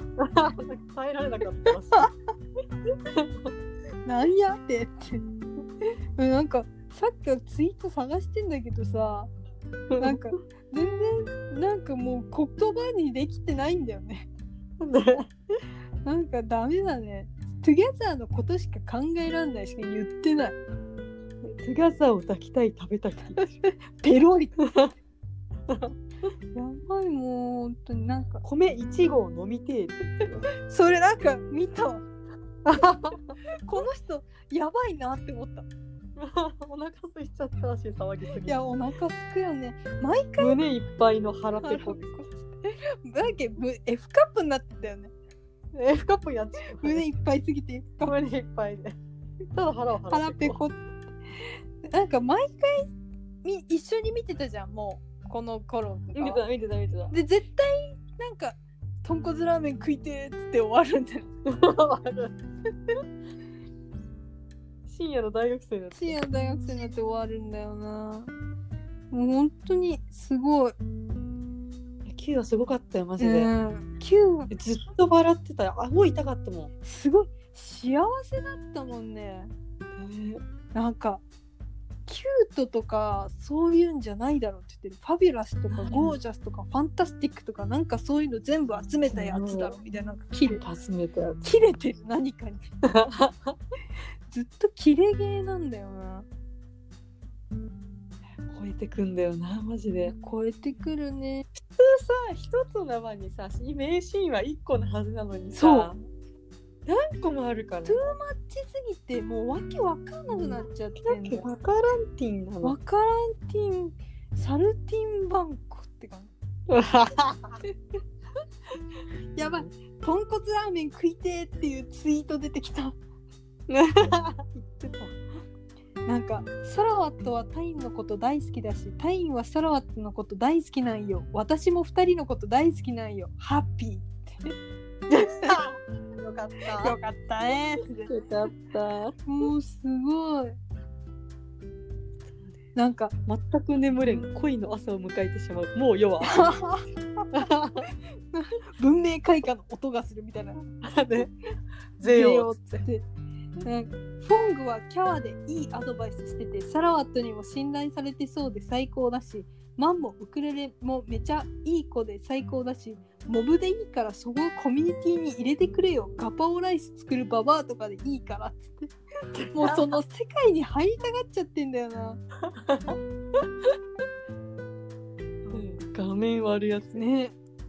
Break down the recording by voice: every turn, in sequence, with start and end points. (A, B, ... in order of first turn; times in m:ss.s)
0:00.2-0:02.1 A
0:03.0-0:03.5 A
0:04.0-0:05.2 B
0:06.2-0:09.3 B
0:09.9-0:10.3 A
0:10.0-0:14.3 B
0:14.8-0:15.3 A
0:16.0-0:20.6 B
0:21.4-0:23.6 A
0:23.6-0:24.6 B
0:24.6-0:24.9 A
0:25.7-0:25.9 A
0:26.5-0:28.4 B
0:28.4-0:30.5 A
0:30.6-0:32.0 B
0:32.6-0:33.3 A
0:33.5-0:35.6 B
0:36.2-0:38.6 A
0:38.4-0:40.6 B
0:40.4-0:42.2 A
0:41.6-0:45.1 B
0:45.7-0:47.0 A
0:46.8-0:48.2 B
0:48.0-0:49.0 A
0:49.5-0:50.6 A
0:50.1-0:50.8 B
0:51.8-0:52.9 B
0:53.4-0:56.4 B
0:56.1-0:57.1 A
0:57.1-1:01.3 B
1:01.4-1:02.4 A
1:04.8-1:06.2 A
1:05.9-1:08.3 B
1:09.1-1:10.7 B
1:12.0-1:13.5 A
1:13.2-1:14.5 B
1:14.5-1:16.7 A
1:16.8-1:19.5 B
1:20.0-1:20.4 A
1:20.7-1:21.2 B
1:22.0-1:30.6 B
1:25.7-1:26.2 A
1:29.1-1:29.8 A
1:30.4-1:31.4 A
1:31.4-1:32.6 B
1:32.8-1:33.6 A
1:34.3-1:36.2 B
1:38.5-1:40.1 A
1:40.1-1:41.5 B
1:41.6-1:46.0 A
1:45.6-1:45.9 B
1:46.8-1:48.1 A
1:47.8-1:51.4 B
1:51.0-1:52.7 A
1:52.6-1:56.3 B
1:56.7-1:57.6 A
1:59.3-2:03.0 B
2:03.7-2:05.1 A
2:06.0-2:14.5 B
2:15.1-2:17.0 A
2:16.7-2:18.1 B
2:18.0-2:19.2 A
2:19.2-2:20.6 B
2:22.7-2:23.1 B
2:23.2-2:26.4 A
2:26.2-2:27.2 B
2:27.3-2:27.9 A
2:28.3-2:30.6 B
2:30.8-2:31.3 A
2:32.0-2:32.5 A
2:32.0-2:33.0 B
2:33.6-2:48.9 B
2:49.3-2:50.0 A
2:49.5-2:52.2 B
2:52.5-2:53.0 A
2:55.5-2:57.0 A
2:56.9-2:57.3 B